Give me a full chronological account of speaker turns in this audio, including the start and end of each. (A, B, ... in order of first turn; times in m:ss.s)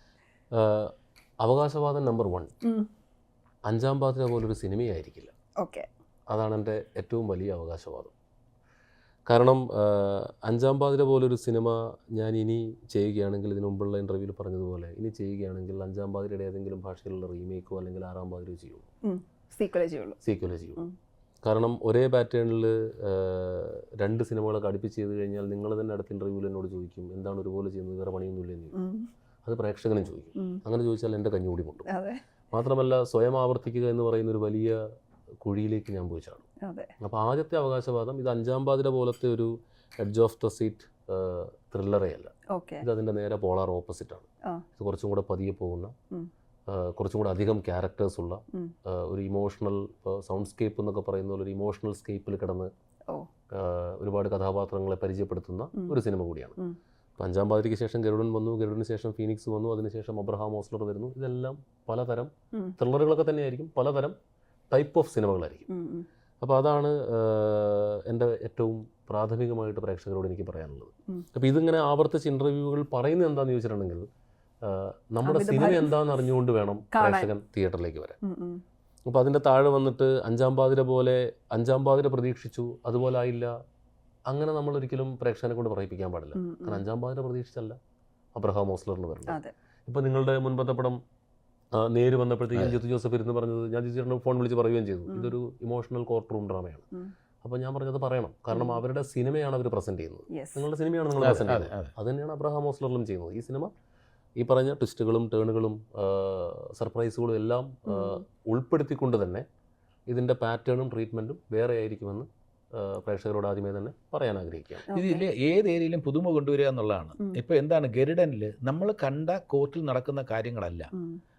0:00.6-0:00.9 A
0:01.4-0:02.5 A
0:03.7-0:05.3 A
0:05.6-0:05.9 B
0:06.3-0:08.1 A
0:09.3-0:18.9 A
0:19.0-0:20.2 B
0:20.2-0:20.8 A
0:21.4-0:28.8 A
0:28.7-0:29.0 B
0:29.4-0:31.9 A
0:31.9-0:32.2 B
0:32.5-0:34.8 A
0:35.4-0:36.5 A
0:36.6-0:36.9 B
0:37.0-0:39.5 A
0:40.0-0:45.9 A
0:42.5-0:42.8 B
0:46.7-0:52.7 A
0:53.5-0:56.6 A
0:57.2-1:04.2 A
1:04.7-1:05.7 A
1:05.7-1:06.1 B
1:06.4-1:14.0 A
1:14.6-1:18.2 A
1:15.2-1:16.0 B
1:16.9-1:17.3 B
1:18.2-1:18.6 B
1:19.1-1:23.5 A
1:24.3-1:27.8 A
1:26.4-1:26.8 B
1:28.4-1:31.0 A
1:29.3-1:29.5 B
1:31.8-1:36.8 A
1:37.4-1:43.7 A
1:38.5-1:38.8 B
1:40.3-1:40.7 B
1:41.2-1:41.9 C
1:44.4-1:49.4 A
1:47.9-1:48.2 B
1:50.1-1:54.9 A
1:54.9-1:55.2 B
1:54.9-2:00.9 C
2:00.9-2:01.2 B